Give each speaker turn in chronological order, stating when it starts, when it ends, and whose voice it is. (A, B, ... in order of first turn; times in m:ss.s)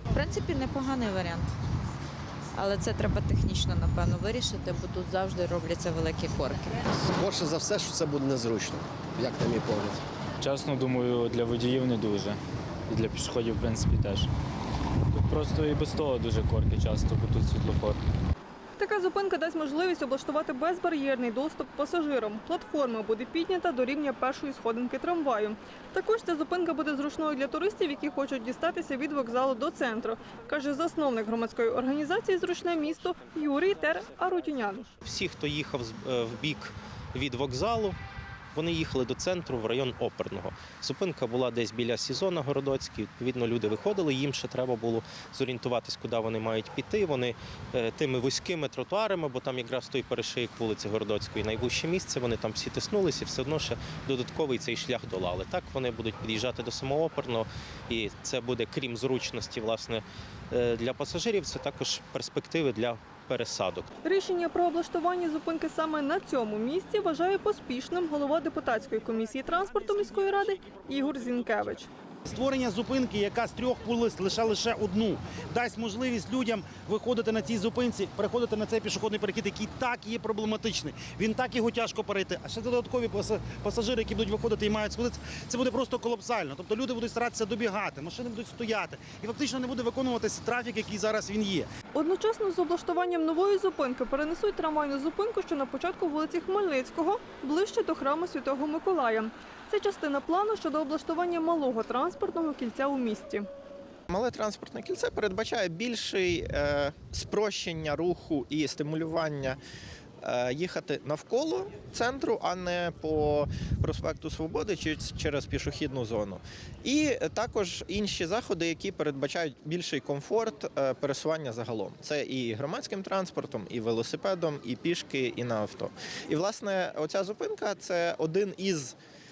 0:00.1-0:01.5 A
0:02.6-0:06.8 A
0:07.0-0:10.0 B
0:10.4-0:12.4 C
0:12.9-0:14.3 C
0:15.1-0:18.0 C
0:18.8-0:34.9 D
0:35.0-0:38.0 E
0:38.5-1:03.9 E
1:04.0-1:11.9 D
1:12.3-1:31.7 F
1:16.0-1:16.6 B
1:18.2-1:18.6 B
1:21.6-1:22.2 B
1:31.9-1:43.5 D
1:44.1-1:49.6 G
1:50.2-2:09.0 G